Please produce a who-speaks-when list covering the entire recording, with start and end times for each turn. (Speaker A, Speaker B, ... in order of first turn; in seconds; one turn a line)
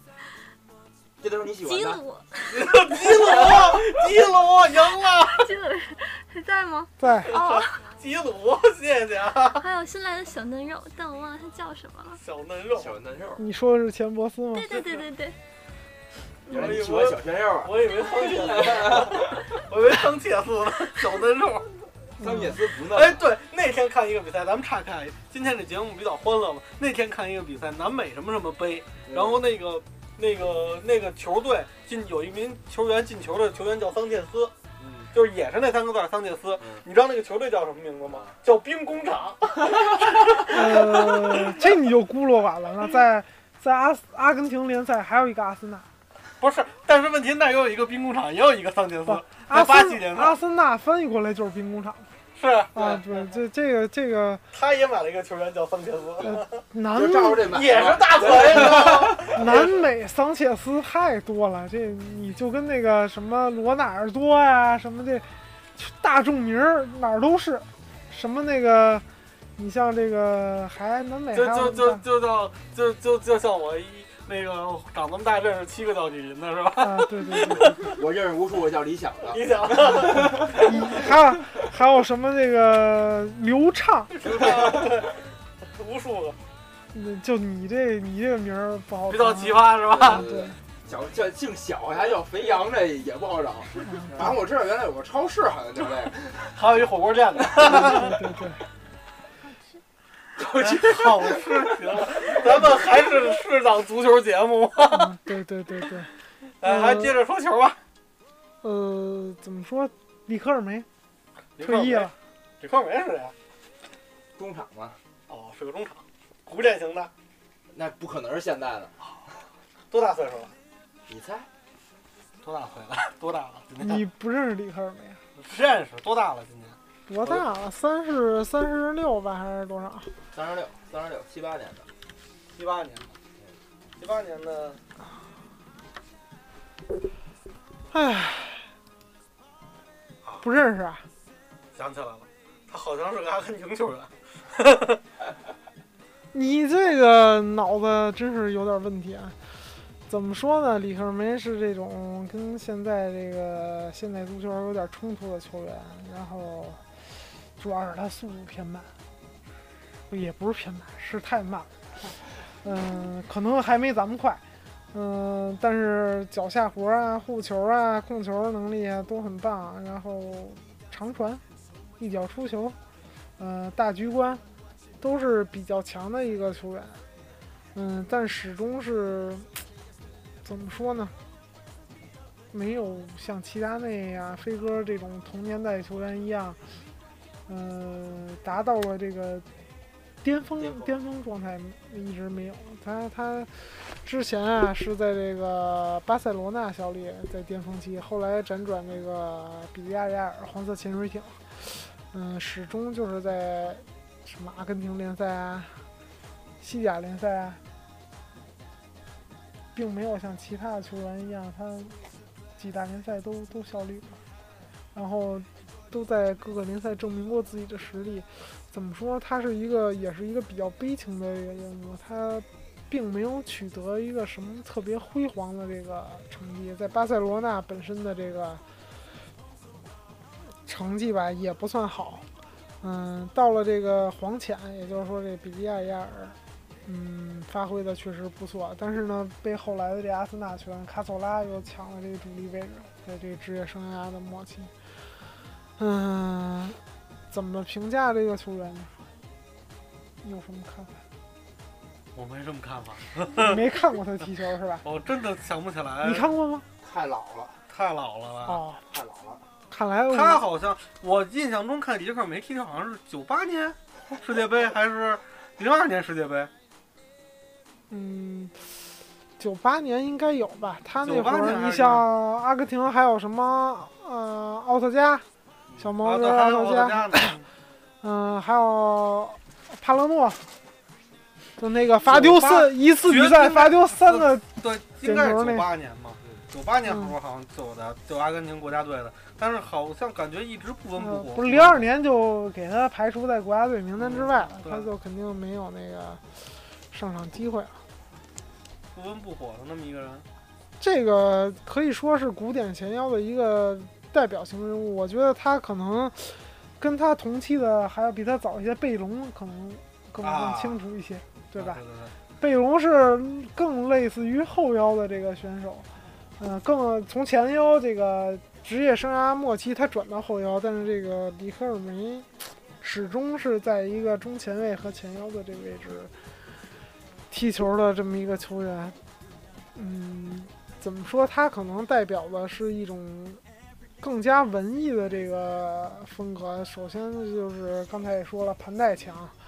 Speaker A: 1.2-2.0
Speaker B: 1.6-3.5
Speaker C: 2.5-5.5
Speaker A: 3.2-3.8
Speaker B: 4.8-7.8
Speaker D: 7.0-7.3
Speaker C: 7.3-9.7
Speaker B: 9.6-12.2
Speaker C: 12.2-12.9
Speaker A: 12.8-13.4
Speaker D: 13.4-14.8
Speaker B: 14.5-15.4
Speaker A: 16.5-19.5
Speaker C: 16.5-21.7
Speaker D: 22.2-22.6
Speaker A: 22.2-23.2
Speaker C: 22.8-34.5
Speaker A: 29.1-29.4
Speaker A: 34.8-35.1
Speaker C: 35.1-41.6
Speaker A: 38.1-38.4
Speaker D: 40.5-45.9
Speaker C: 46.4-50.4
Speaker D: 49.1-52.1
Speaker C: 52.4-53.3
Speaker D: 52.7-54.4
Speaker C: 54.5-56.6
Speaker D: 56.2-57.5
Speaker A: 56.9-59.4
Speaker C: 57.5-59.8
Speaker D: 59.2-69.0
Speaker D: 69.6-72.0
Speaker C: 71.3-77.9
Speaker D: 76.8-77.8
Speaker A: 77.5-80.7
Speaker C: 79.3-80.8
Speaker D: 80.5-84.1
Speaker C: 84.1-86.4
Speaker A: 84.4-84.8
Speaker D: 86.9-90.6
Speaker C: 89.1-90.3
Speaker A: 89.9-96.4
Speaker D: 93.8-94.3
Speaker C: 96.5-98.2
Speaker D: 97.6-98.6
Speaker A: 100.4-102.5
Speaker C: 100.6-105.1
Speaker D: 104.9-106.1
Speaker C: 106.6-107.8
Speaker D: 106.6-107.2
Speaker D: 108.6-110.9
Speaker C: 111.6-113.3
Speaker D: 111.6-112.1
Speaker A: 114.3-115.0
Speaker C: 115.3-117.1
Speaker A: 117.7-118.9
Speaker C: 119.9-120.5
Speaker A: 121.1-121.5
Speaker C: 122.4-124.0
Speaker D: 123.8-125.2
Speaker C: 125.4-127.4
Speaker D: 127.1-130.1
Speaker A: 130.3-131.9
Speaker C: 132.6-133.1
Speaker C: 134.0-134.8
Speaker D: 137.9-138.7
Speaker D: 140.4-141.1
Speaker C: 141.8-145.0
Speaker D: 146.3-149.4
Speaker D: 150.1-156.8
Speaker D: 157.6-158.9
Speaker D: 160.1-171.4
Speaker D: 172.0-172.8
Speaker D: 173.4-174.4
Speaker D: 175.0-177.0
Speaker D: 177.7-179.5
Speaker D: 180.4-181.2
Speaker D: 182.5-186.6
Speaker D: 187.5-189.5
Speaker D: 190.2-205.8
Speaker A: 190.6-190.9
Speaker D: 206.6-207.6
Speaker D: 209.8-212.0
Speaker D: 212.6-214.2
Speaker D: 214.9-228.6
Speaker D: 230.7-232.3
Speaker D: 232.8-244.7
Speaker D: 245.8-249.0
Speaker D: 250.2-251.0
Speaker C: 252.2-253.6
Speaker D: 253.3-254.8
Speaker C: 254.8-256.3
Speaker D: 256.0-256.7
Speaker A: 256.8-257.6
Speaker C: 257.7-258.6
Speaker D: 258.5-258.8
Speaker A: 258.9-259.4
Speaker D: 259.7-260.4
Speaker C: 260.1-266.5
Speaker D: 267.9-268.7
Speaker D: 269.4-275.3
Speaker C: 271.1-272.1
Speaker D: 275.8-277.4
Speaker C: 276.0-277.4
Speaker D: 278.0-280.4
Speaker D: 281.6-285.7
Speaker C: 282.1-291.9
Speaker D: 286.9-287.1
Speaker D: 291.0-297.8
Speaker C: 294.0-294.9
Speaker C: 298.9-300.2
Speaker D: 300.8-311.8
Speaker C: 310.2-310.8
Speaker C: 311.5-312.1
Speaker D: 312.4-315.9
Speaker D: 316.4-326.1
Speaker D: 327.3-329.0
Speaker D: 329.7-333.4
Speaker D: 334.0-339.4